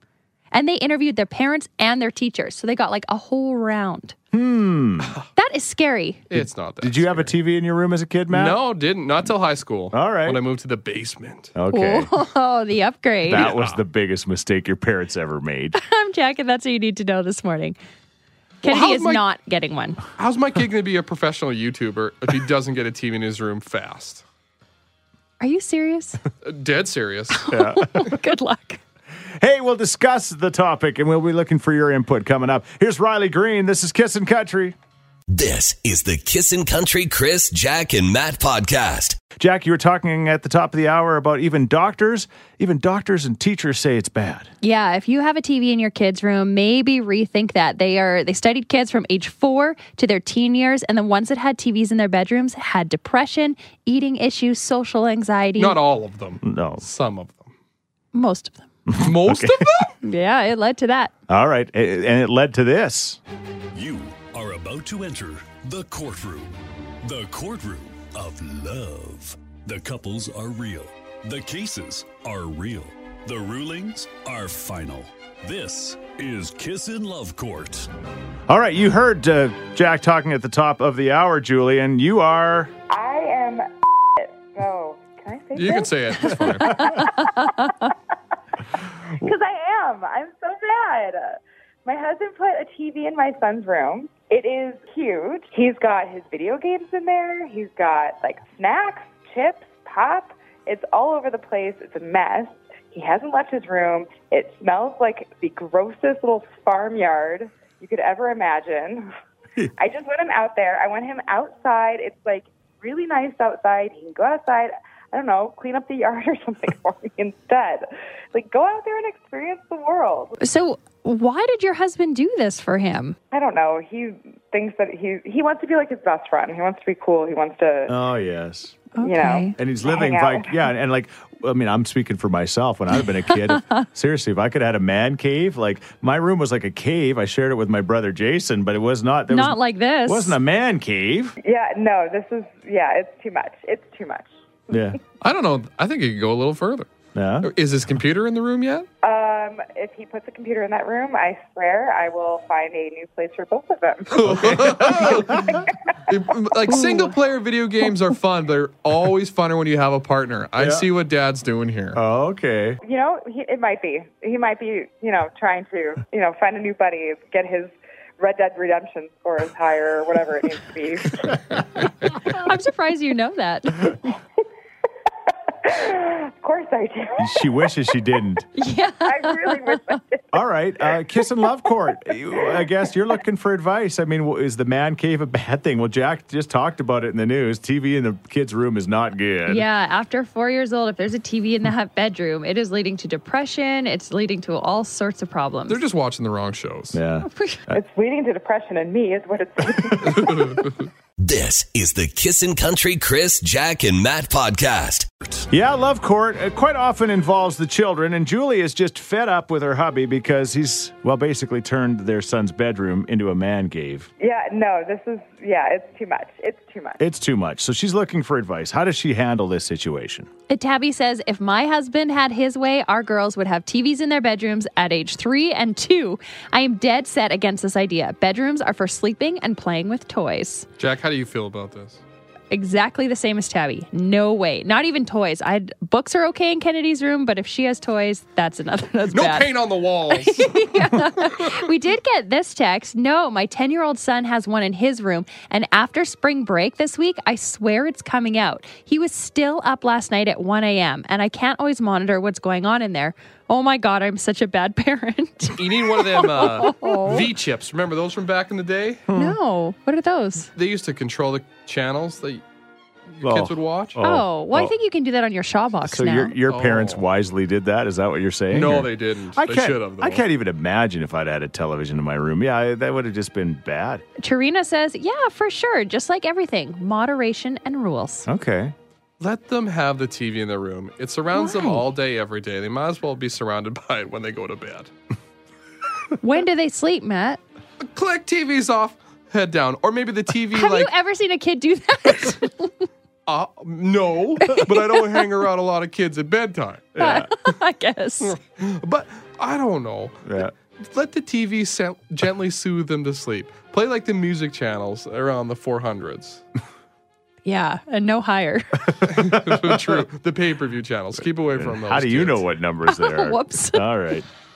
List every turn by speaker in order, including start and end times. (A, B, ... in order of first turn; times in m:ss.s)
0:00.5-0:04.1 A
0:04.3-0:05.1 B
0:05.4-0:06.2 A
0:06.3-0:07.4 C
0:06.3-0:08.6 B
0:08.3-0:11.5 C
0:09.9-0:10.4 B
0:11.5-0:12.1 B
0:11.7-0:13.5 A
0:13.2-0:15.8 B
0:13.3-0:13.8 C
0:15.7-0:17.8 A
0:18.6-0:19.2 C
0:18.6-0:20.0 A
0:20.2-0:24.2 C
0:25.4-0:26.2 A
0:26.4-0:27.4 C
0:27.3-0:28.8 A
0:27.5-0:28.1 B
0:29.4-0:34.8 B
0:35.3-0:39.2 D
0:39.4-0:44.5 B
0:44.6-0:55.8 A
0:55.6-0:57.5 C
0:56.4-0:56.8 B
0:58.1-0:58.6 A
0:58.8-0:59.7 B
0:59.0-0:59.9 C
1:00.0-1:01.1 A
1:01.3-1:03.2 B
1:03.7-1:17.9 E
1:18.5-1:22.7 B
1:22.9-1:27.9 F
1:25.6-1:27.0 C
1:26.9-1:27.9 A
1:29.1-1:49.1 F
1:49.8-2:00.4 F
2:00.4-2:03.2 A
2:03.3-2:07.9 F
2:07.9-2:08.8 B
2:08.9-2:09.5 A
2:09.0-2:10.6 F
2:09.6-2:21.4 B
2:13.5-2:13.8 A
2:19.3-2:20.4 A
2:21.4-2:24.8 F
2:24.7-2:25.0 B
2:25.2-2:26.9 C
2:27.1-2:27.5 B
2:27.4-2:28.9 C
2:29.0-2:35.9 F
2:34.2-2:35.4 C
2:34.2-2:35.6 B
2:36.1-2:42.0 C
2:40.6-2:40.9 B
2:41.9-2:42.8 B
2:42.8-2:51.7 F
2:51.2-2:51.6 B
2:52.2-2:54.0 A
2:55.6-2:57.7 F
2:57.2-2:58.5 B
2:58.6-3:00.0 A
2:59.0-3:00.4 F
3:00.3-3:09.6 B
3:02.1-3:02.6 F
3:09.5-3:15.8 A
3:15.7-3:17.0 C
3:16.9-3:17.8 B
3:17.3-3:17.6 A
3:17.7-3:20.3 F
3:19.7-3:20.5 B
3:20.1-3:20.9 C
3:21.2-3:25.1 D
3:25.5-3:34.1 B
3:34.2-3:37.0 F
3:37.0-3:40.3 B
3:40.5-3:50.7 A
3:50.8-3:52.0 C
3:52.5-3:59.5 A
3:59.1-4:01.6 C
4:00.1-4:17.3 A
4:15.6-4:19.0 C
4:19.1-4:19.4 B
4:19.1-4:20.5 A
4:20.5-4:22.4 C
4:23.1-4:24.0 C
4:23.2-4:24.7 B
4:24.0-4:26.3 A
4:25.8-4:34.0 B
4:26.5-4:27.0 C
4:28.5-4:30.2 C
4:34.2-4:38.2 A
4:38.2-4:38.7 B
4:39.2-4:44.9 C
4:41.3-4:41.8 A
4:46.2-4:47.4 A
4:47.8-4:50.9 C
4:50.5-4:52.7 A
4:53.2-4:57.0 C
4:56.9-4:57.3 B
4:57.0-4:58.3 A
4:58.2-5:00.3 C
5:00.2-5:00.5 B
5:00.8-5:06.4 C
5:07.4-5:08.9 A
5:08.9-5:10.0 B
5:09.0-5:12.4 C
5:11.5-5:14.2 B
5:12.9-5:13.8 A